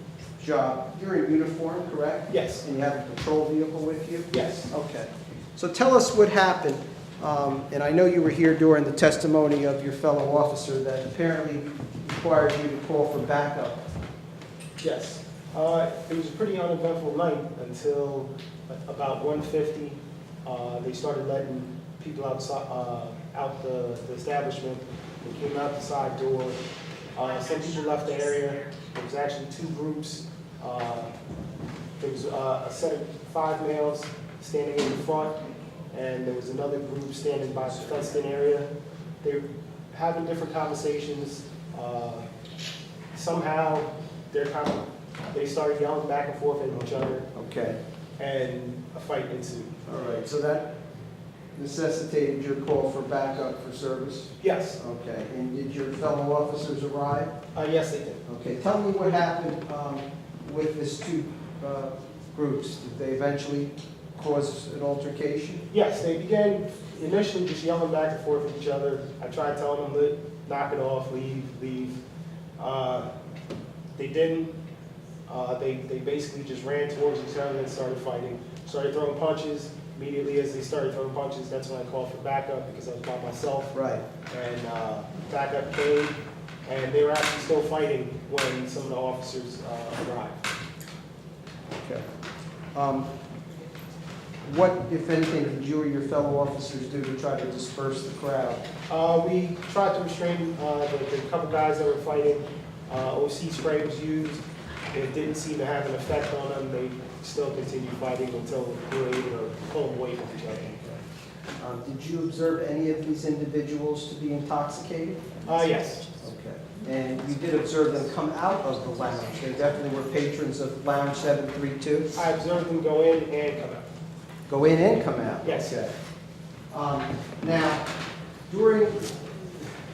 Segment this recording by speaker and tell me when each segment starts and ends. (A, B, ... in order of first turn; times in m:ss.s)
0:00.4-0:13.8 A
0:02.3-0:02.6 B
0:04.3-0:04.7 B
0:14.8-0:26.6 B
0:27.1-0:31.1 B
0:32.0-0:35.4 B
0:35.9-0:38.7 B
0:39.2-0:42.2 B
0:43.1-0:47.3 B
0:47.3-0:47.8 A
0:48.2-0:49.8 B
0:49.9-0:50.7 A
0:51.6-0:57.3 A
0:54.4-0:54.8 B
0:57.5-0:58.2 B
0:58.2-1:05.6 A
1:05.7-1:11.9 B
1:12.6-1:13.1 B
1:13.9-1:14.5 B
1:15.3-1:23.7 B
1:23.7-1:24.0 A
1:24.3-1:26.1 B
1:26.6-1:30.4 B
1:31.8-1:32.0 A
1:32.7-1:33.1 A
1:34.4-1:38.6 A
1:38.9-1:50.8 B
1:51.6-1:55.3 A
1:55.5-1:56.1 B
1:56.2-2:02.1 A
2:02.1-2:03.8 B
2:04.5-2:05.9 A
2:05.4-2:05.7 B
2:06.7-2:07.9 A
2:08.5-2:09.4 A